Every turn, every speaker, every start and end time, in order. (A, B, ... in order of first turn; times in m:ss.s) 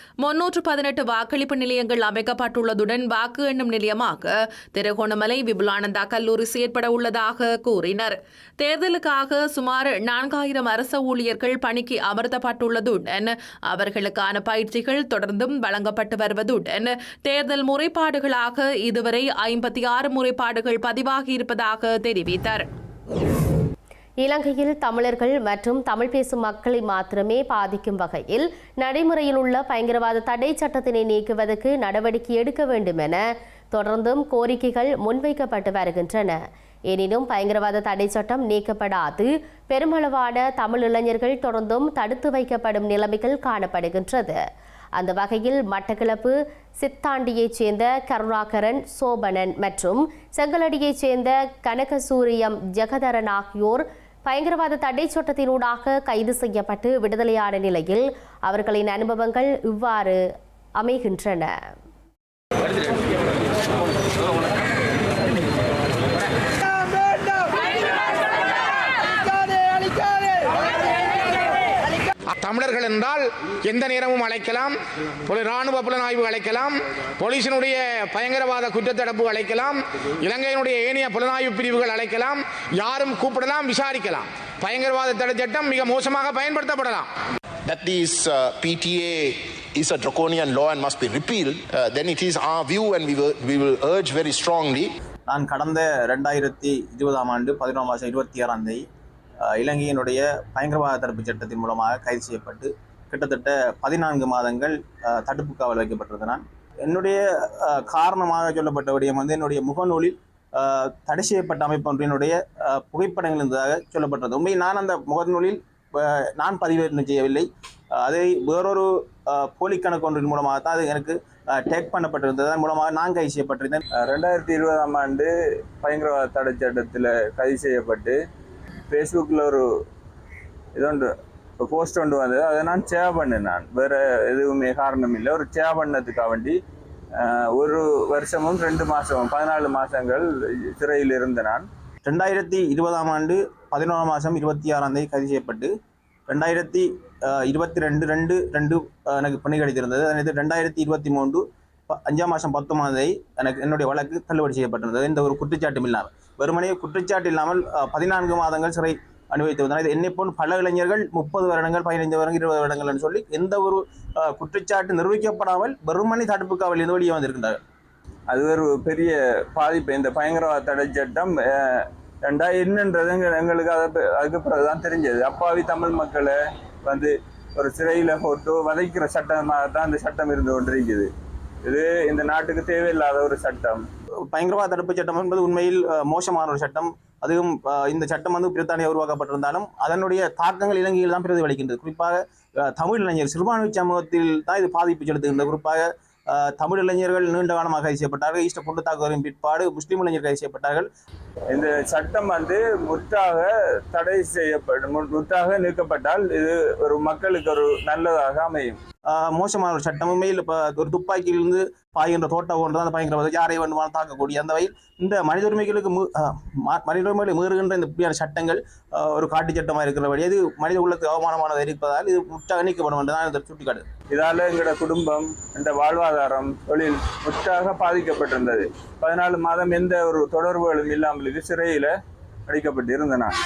0:00.2-0:22.7 A
0:24.2-0:33.2 B
0:33.7-0:36.4 B
0:36.9-0:44.4 B
0:45.0-1:00.2 B
1:00.8-1:01.5 B
1:12.4-1:13.2 C
1:13.7-1:14.7 C
1:15.3-1:16.7 C
1:17.2-1:19.7 C
1:20.2-1:27.0 C
1:27.7-1:34.9 D
1:35.3-1:38.8 E
1:39.5-2:03.8 E
2:03.9-2:08.2 F
2:08.9-2:09.7 F
2:10.7-2:16.6 F
2:17.2-2:21.6 F
2:22.0-2:25.7 E
2:26.3-2:47.6 E
2:48.3-3:01.1 F
3:01.6-3:03.8 F
3:04.3-3:12.2 E
3:12.7-3:20.9 E
3:21.5-3:28.8 F
3:29.1-3:43.8 E
3:44.1-3:51.9 F
3:52.5-3:53.4 F